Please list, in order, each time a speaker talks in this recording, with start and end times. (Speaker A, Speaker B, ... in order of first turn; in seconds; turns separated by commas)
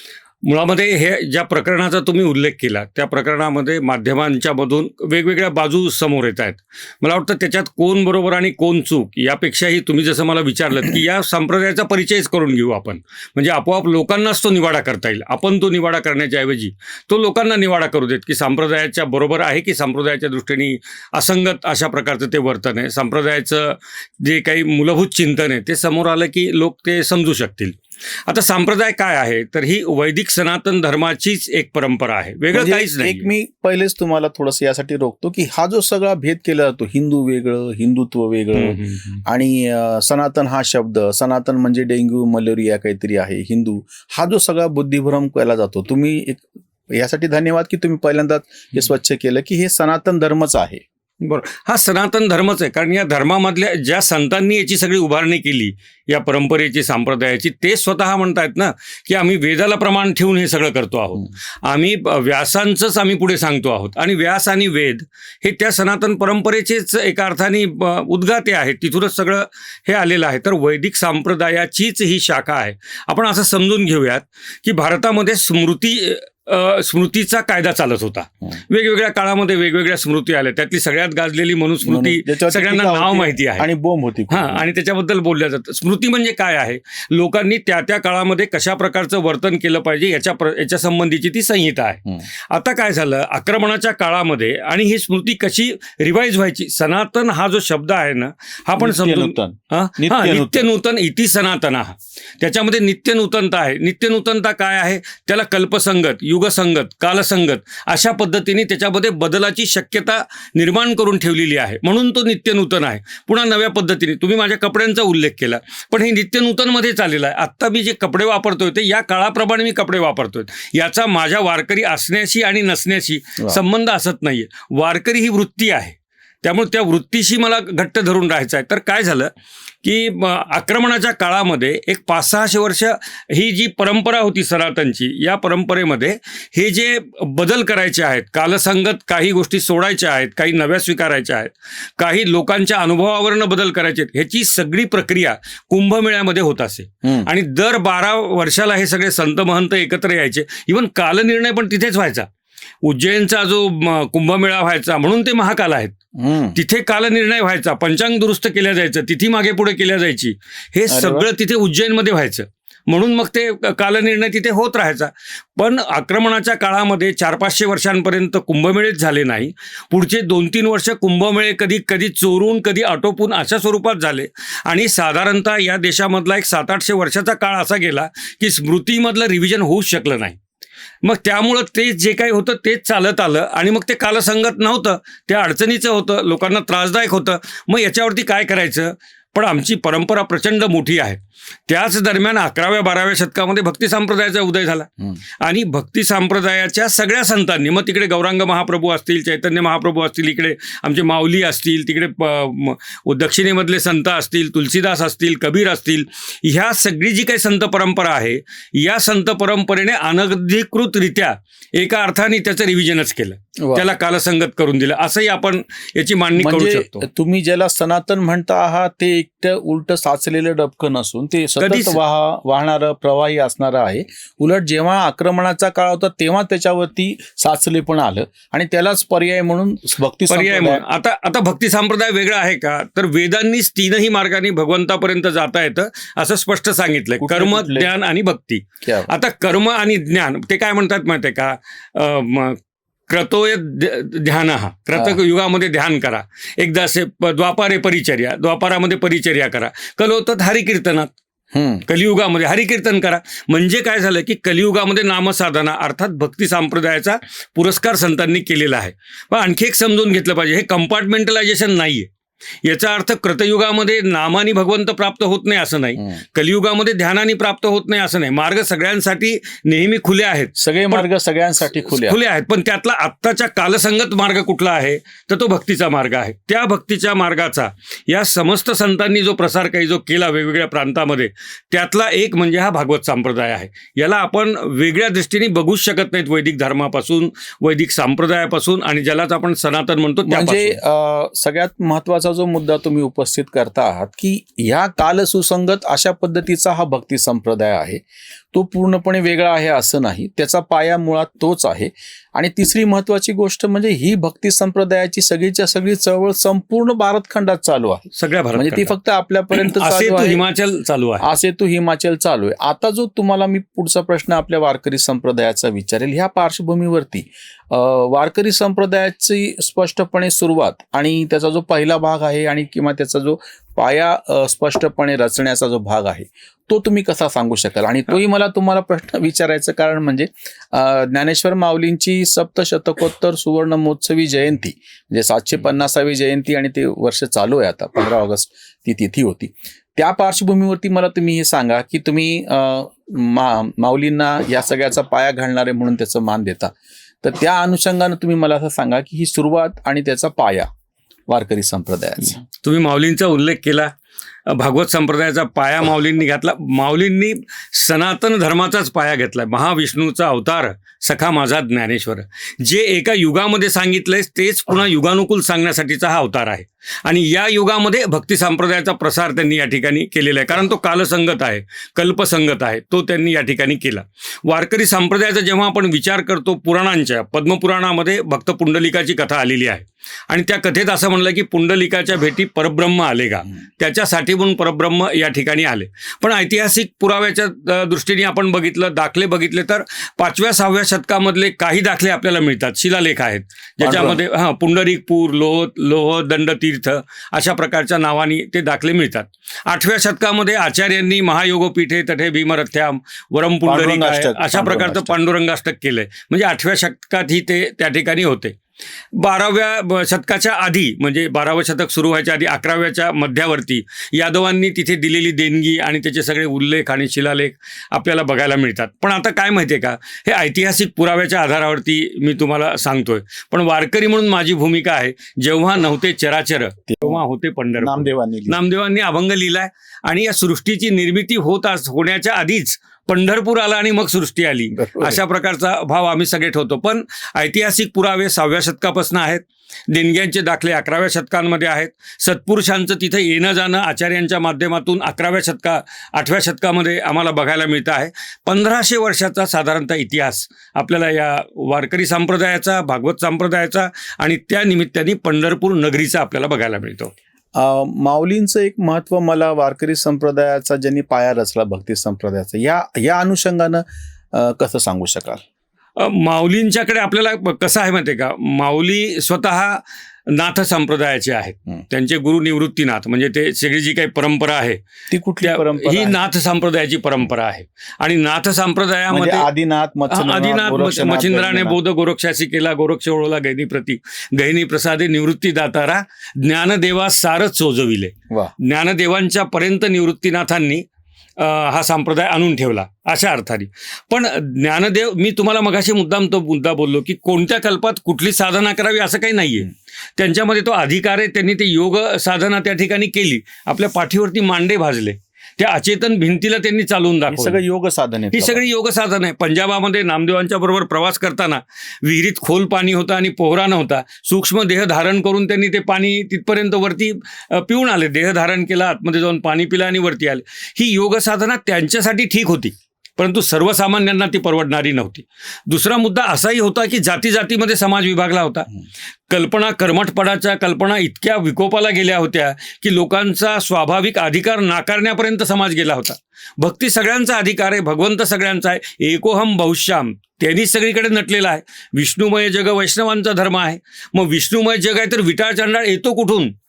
Speaker A: 0.4-33.3, Speaker B: 32.5-50.8, Speaker A: 38.5-39.2, Speaker A: 51.2-83.7, Speaker B: 81.8-84.6, Speaker A: 84.3-129.3, Speaker B: 98.8-100.7, Speaker A: 129.8-152.2, Speaker B: 147.0-147.3, Speaker A: 152.8-155.9, Speaker B: 156.2-156.6, Speaker A: 156.5-180.4, Speaker B: 160.9-161.3, Speaker A: 181.0-194.9, Speaker A: 195.4-217.0, Speaker B: 213.6-213.8, Speaker B: 216.4-230.8, Speaker A: 221.6-222.0, Speaker A: 230.3-242.6, Speaker B: 237.2-237.9, Speaker B: 238.8-239.1, Speaker A: 243.1-251.1, Speaker B: 251.5-251.8, Speaker A: 251.9-262.1, Speaker A: 262.6-271.0, Speaker B: 270.6-272.2, Speaker A: 271.8-290.8, Speaker B: 290.2-310.4, Speaker A: 308.1-308.9, Speaker A: 309.5-311.2, Speaker B: 311.2-350.7, Speaker B: 351.3-352.4, Speaker A: 352.6-353.9, Speaker A: 354.5-408.5, Speaker B: 393.8-394.2, Speaker B: 403.6-405.1, Speaker A: 409.1-457.1, Speaker B: 427.8-428.6, Speaker B: 434.7-435.2, Speaker B: 457.5-465.4, Speaker A: 466.0-474.8, Speaker B: 475.1-476.2, Speaker A: 475.4-479.5, Speaker B: 479.1-481.8, Speaker A: 480.1-490.8, Speaker A: 491.4-507.6, Speaker B: 507.3-508.6, Speaker A: 508.3-528.7, Speaker A: 529.3-546.5